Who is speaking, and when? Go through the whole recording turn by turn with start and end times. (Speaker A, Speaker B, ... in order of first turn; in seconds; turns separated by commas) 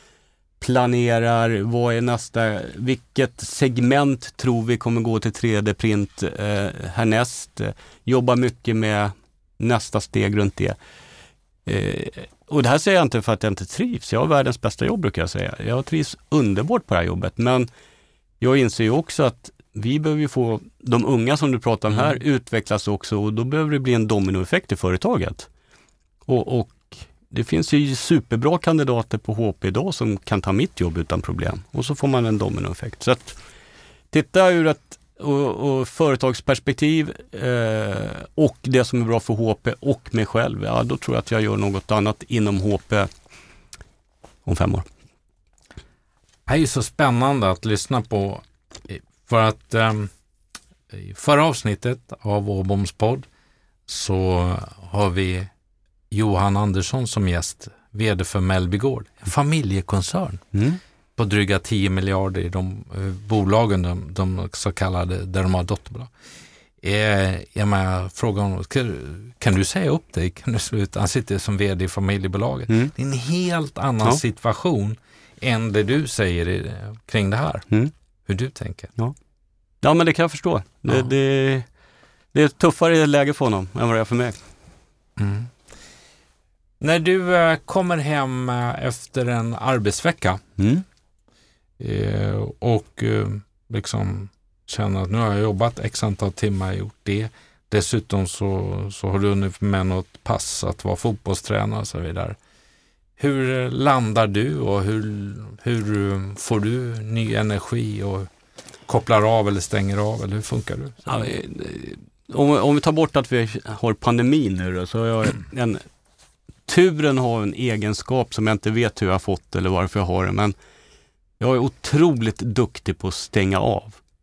Speaker A: 0.6-10.8, Speaker A: 11.7-17.7, Speaker A: 18.4-25.5, Speaker A: 26.3-33.4, Speaker A: 34.1-43.1, Speaker A: 44.5-44.9, Speaker B: 46.5-50.1, Speaker B: 50.9-53.3, Speaker B: 53.9-55.5, Speaker B: 56.1-60.5, Speaker A: 60.5-60.8, Speaker B: 61.2-66.1, Speaker B: 66.8-77.7, Speaker B: 78.3-78.9, Speaker A: 79.8-81.7, Speaker A: 82.3-84.4, Speaker B: 85.2-85.5, Speaker B: 86.8-90.4, Speaker A: 90.6-90.8, Speaker B: 91.8-102.4, Speaker B: 103.2-108.3, Speaker B: 108.9-111.3, Speaker A: 111.1-115.8, Speaker A: 116.7-120.5, Speaker A: 121.4-124.0